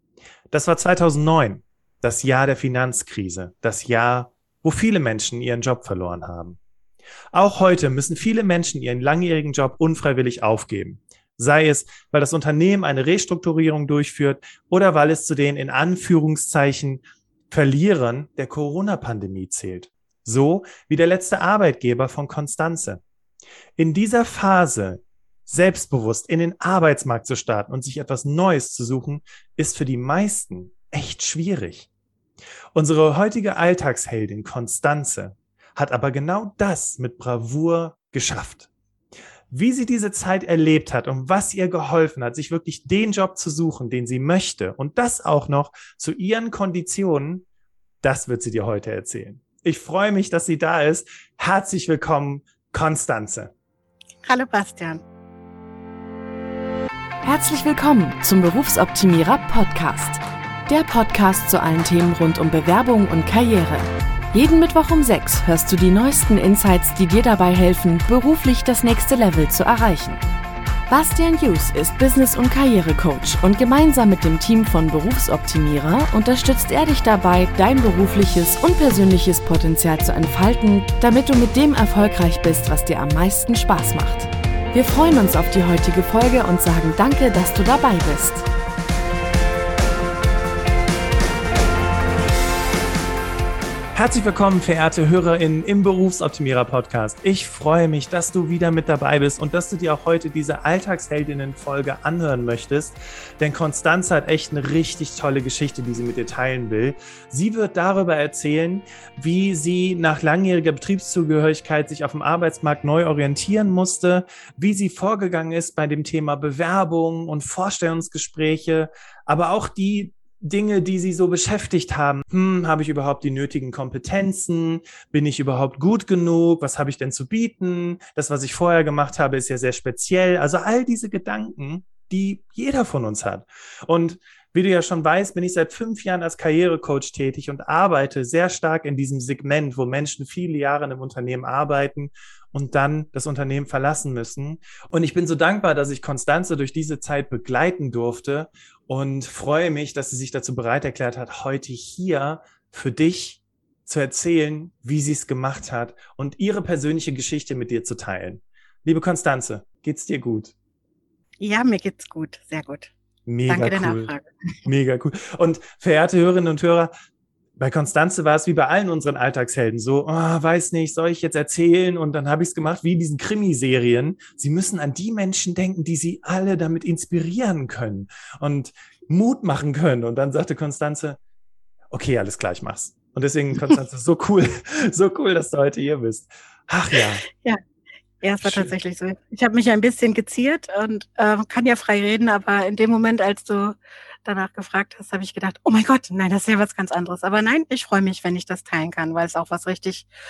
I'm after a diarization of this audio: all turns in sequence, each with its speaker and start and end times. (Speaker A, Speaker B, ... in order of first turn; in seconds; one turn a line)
Speaker A: 0.5-6.6
Speaker A: 7.3-23.0
Speaker A: 23.8-31.9
Speaker A: 32.7-38.7
Speaker A: 39.5-47.5
Speaker A: 48.0-53.5
Speaker B: 54.2-55.0
Speaker C: 57.2-70.2
Speaker C: 70.9-88.5
Speaker A: 93.9-160.5
Speaker B: 161.4-162.9
Speaker A: 163.3-164.1
Speaker B: 163.5-164.3
Speaker A: 164.7-166.9
Speaker A: 167.6-181.2
Speaker A: 181.9-187.2
Speaker B: 187.3-187.6
Speaker B: 188.2-200.1
Speaker A: 188.4-188.7